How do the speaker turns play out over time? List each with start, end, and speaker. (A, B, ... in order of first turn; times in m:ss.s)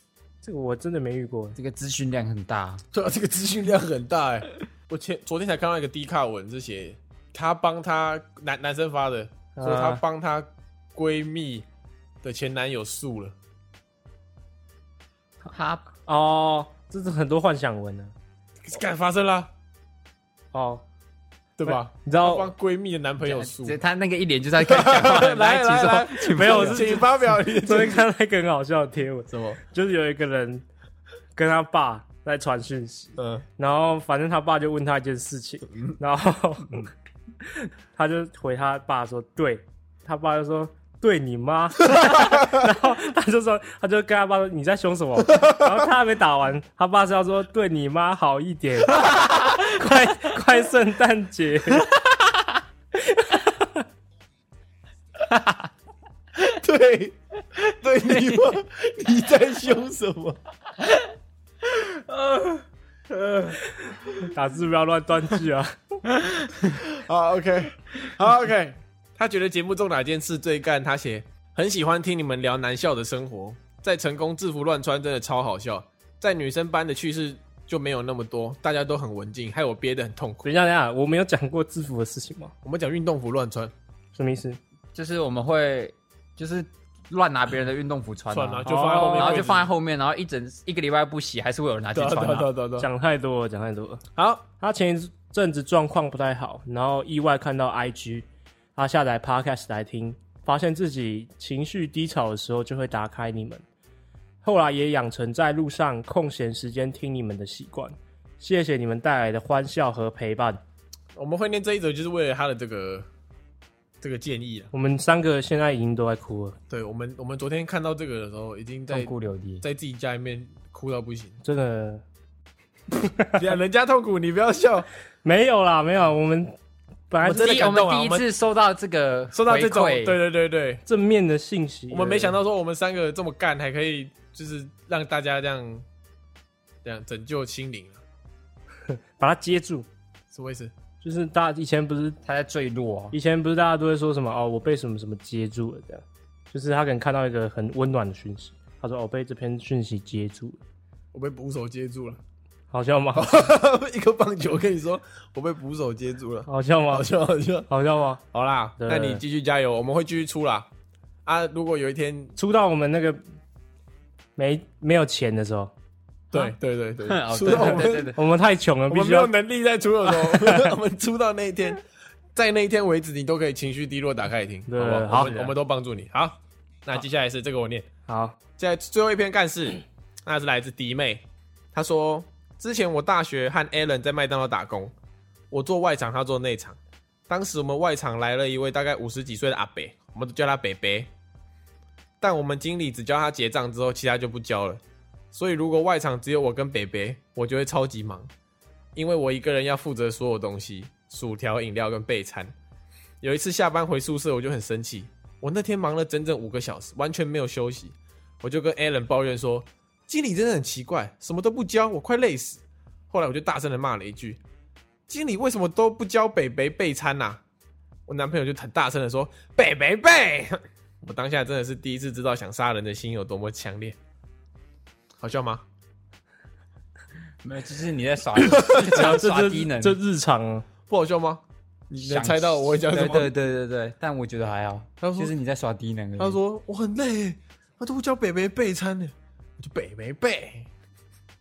0:00.4-0:01.6 A
0:01.6-0:02.8 B
0:02.9-0:11.7 C
0:09.6-0:10.0 A
0:12.2-0:13.4 C
0:15.4-0:15.8 B
0:16.1-0:18.1 A
0:18.7-0:19.5 C
0:20.5-0:20.8 A
0:21.6-0:23.8 C
0:21.7-0:22.5 A
0:23.3-0:26.9 B
0:24.6-0:28.0 C
0:26.3-0:30.6 A
0:29.3-0:29.6 C
0:31.4-0:36.9 A
0:33.2-0:33.4 C
0:37.4-0:51.9 A
0:42.0-0:42.4 C
0:53.0-0:53.9 A
0:55.3-0:55.6 B
0:56.4-1:00.4 C
1:03.1-1:03.6 C
1:04.2-1:05.8 A
1:06.5-1:06.8 B
1:06.9-1:20.4 C
1:20.4-1:22.5 A
1:22.6-1:23.7 C
1:24.2-1:24.6 A
1:25.0-1:32.5 B
1:28.3-1:29.7 C
1:28.6-1:29.5 A
1:31.9-1:32.9 C
1:32.8-1:34.0 A
1:34.2-1:34.4 C
1:34.6-1:43.6 A
1:44.4-1:50.6 A
1:51.2-1:53.1 C
1:54.0-1:54.7 C
1:54.7-1:56.6 A
1:56.7-2:01.4 C
1:58.9-1:59.6 B
2:01.4-2:02.0 A
2:02.9-2:03.4 A
2:03.4-2:04.9 C
2:05.2-2:06.6 A
2:07.1-2:07.6 A
2:07.2-2:08.2 C
2:07.3-2:10.2 B
2:09.3-2:10.8 C
2:10.9-2:12.4 A
2:11.9-2:15.8 C
2:16.8-2:18.0 C
2:19.2-2:19.9 A
2:20.3-2:20.7 C
2:21.0-2:22.2 A
2:22.2-2:23.2 B
2:23.1-2:30.6 A
2:31.1-2:32.2 C
2:32.7-2:33.5 A
2:33.2-2:37.7 C
2:36.5-2:37.1 A
2:37.7-2:38.2 A
2:38.3-2:40.7 C
2:38.8-2:39.2 A
2:41.2-2:42.3 C
2:42.4-2:43.2 A
2:44.4-2:45.7 A
2:46.3-2:48.2 C
2:47.1-2:48.2 B
2:48.2-2:49.3 A
2:48.9-2:51.8 C
2:50.1-2:50.7 A
2:52.4-2:57.9 C
2:54.7-2:55.5 A
2:55.2-2:55.5 B
2:58.1-2:58.4 A
2:58.6-3:04.9 C
3:05.5-3:11.1 C
3:12.2-3:14.8 C
3:15.3-3:18.3 C
3:19.0-3:22.5 C
3:23.2-3:34.4 C
3:35.1-3:37.4 C
3:38.1-3:44.0 C
3:45.2-3:45.6 C
3:47.4-3:50.0 B
3:48.4-3:49.2 C
3:48.9-3:50.7 A
3:50.9-3:53.3 C
3:51.9-3:56.4 B
3:55.0-3:55.3 C
3:56.2-4:00.7 C